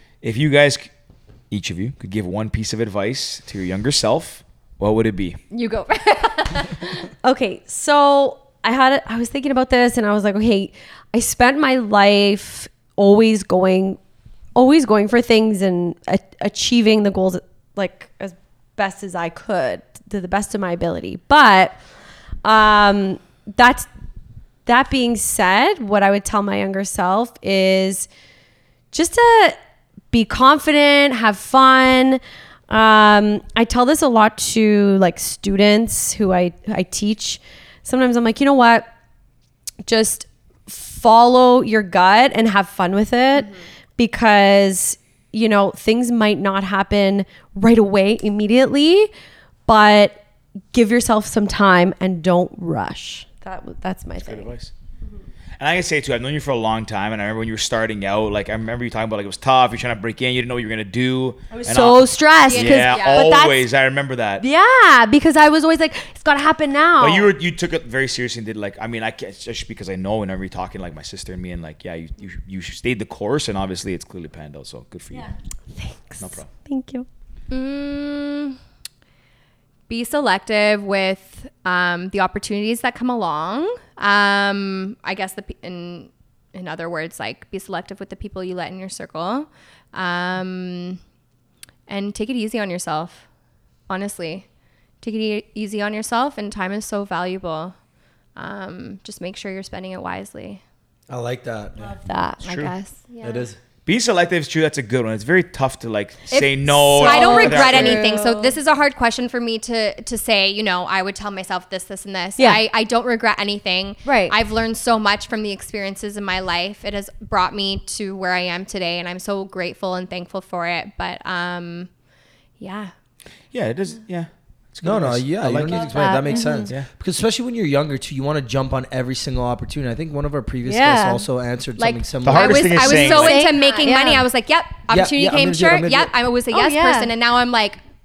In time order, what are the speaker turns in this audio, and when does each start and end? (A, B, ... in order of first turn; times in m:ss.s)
0:00.2-0:00.9 A
0:01.5-0:05.4 A
0:05.5-0:07.0 B
0:07.2-0:14.0 C
0:14.5-0:21.8 C
0:22.4-0:23.9 C
0:24.6-0:28.1 C
0:28.9-0:29.6 C
0:30.1-0:38.9 C
0:39.8-0:49.1 C
0:49.7-0:50.2 C
0:50.7-0:54.5 C
0:54.2-0:54.7 A
0:55.6-1:04.4 A
1:01.5-1:03.6 C
1:02.4-1:03.4 B
1:04.4-1:07.3 C
1:07.0-1:15.3 A
1:15.1-1:17.1 C
1:16.2-1:16.5 A
1:17.5-1:18.6 B
1:19.9-1:31.0 B
1:31.9-1:33.2 B
1:33.9-1:34.4 B
1:35.0-1:37.7 B
1:38.4-1:40.6 B
1:41.1-1:41.8 D
1:41.8-1:42.7 A
1:42.0-1:42.4 C
1:42.4-1:43.5 B
1:43.2-1:43.6 D
1:43.8-1:48.0 A
1:46.3-2:01.9 B
1:47.0-1:48.6 C
1:54.0-1:54.3 C
2:02.6-2:02.9 B
2:03.5-2:06.9 A
2:04.8-2:12.8 D
2:05.7-2:06.7 C
2:10.6-2:11.3 C
2:11.8-2:17.8 B
2:12.2-2:13.4 A
2:12.8-2:14.3 C
2:14.9-2:16.1 D
2:16.5-2:17.1 C